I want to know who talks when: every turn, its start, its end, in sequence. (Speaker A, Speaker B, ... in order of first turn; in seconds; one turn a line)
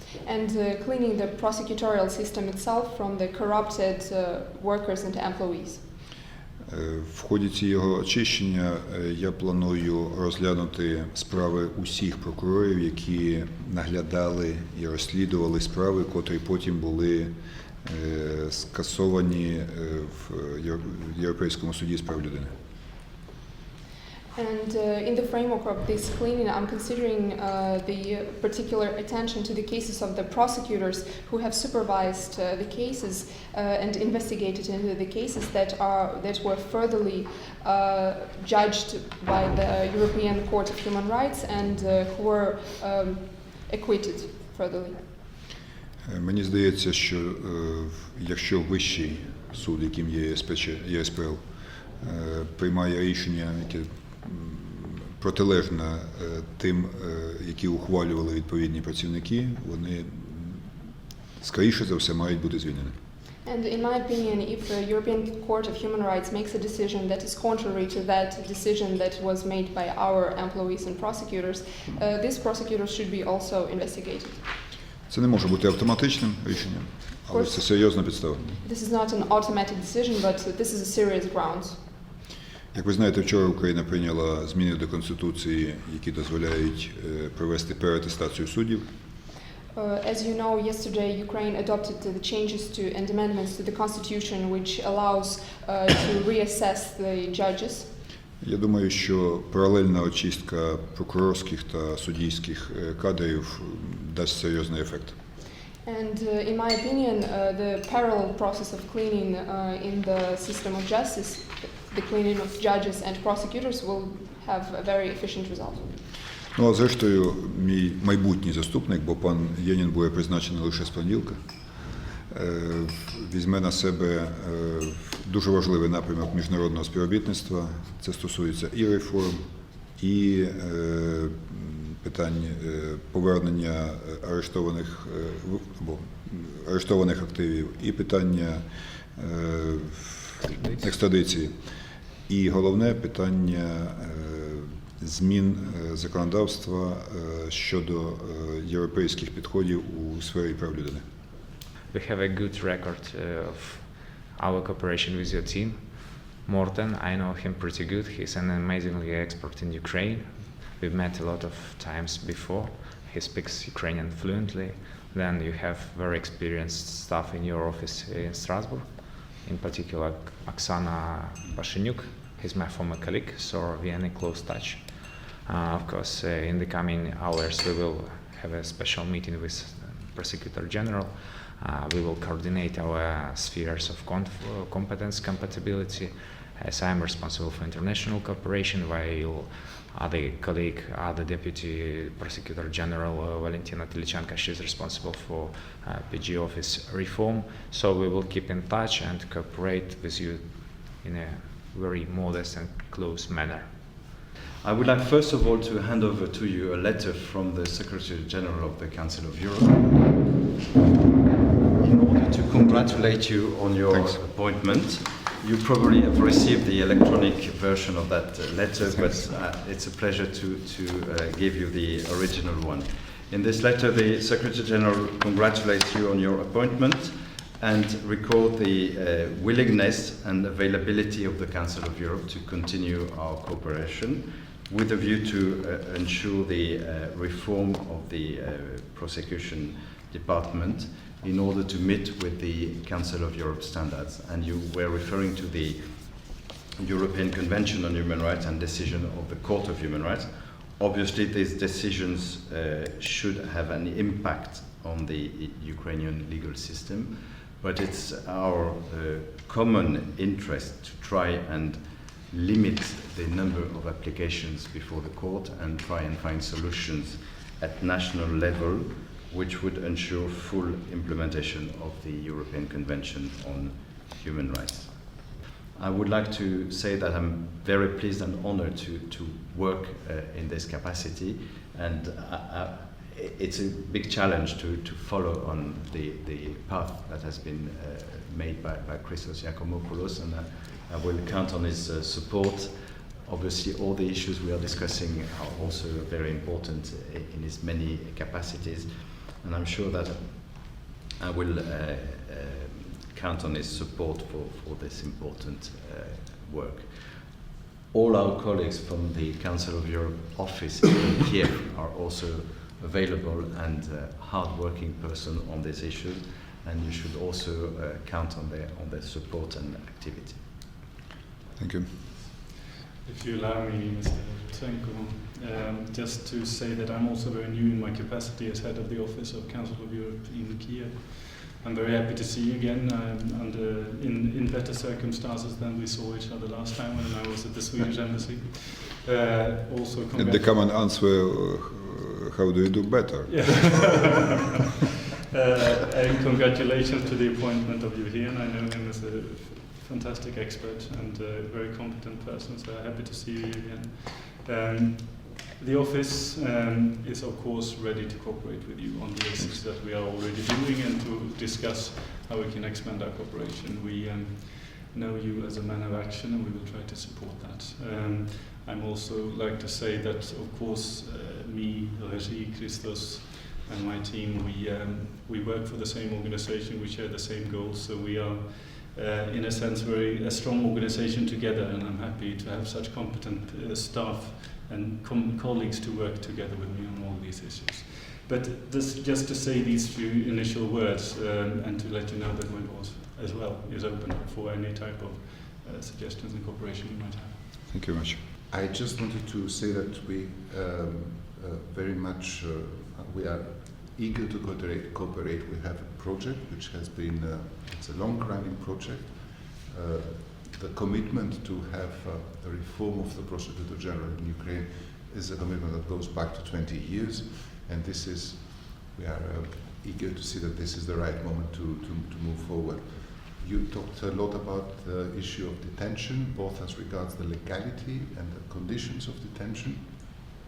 Speaker A: 0.2-5.9
Speaker B: 6.7-22.5
Speaker A: 24.4-45.0
Speaker B: 46.0-60.7
Speaker B: 61.4-62.9
Speaker A: 63.5-74.5
Speaker B: 75.1-78.6
Speaker A: 77.3-78.0
Speaker A: 78.6-81.9
Speaker B: 82.7-88.8
Speaker A: 89.8-97.9
Speaker B: 98.4-105.2
Speaker A: 105.8-116.0
Speaker B: 116.5-121.5
Speaker B: 122.3-129.4
Speaker B: 130.0-141.6
Speaker B: 142.3-151.1
Speaker C: 151.9-204.1
Speaker D: 204.6-210.4
Speaker D: 211.8-307.4
Speaker B: 212.7-214.2
Speaker B: 218.9-219.2
Speaker D: 307.9-320.7
Speaker B: 321.6-322.0
Speaker E: 323.0-340.5
Speaker B: 340.1-343.8
Speaker E: 343.3-344.2
Speaker E: 345.3-397.3
Speaker B: 397.7-398.2
Speaker F: 398.5-430.3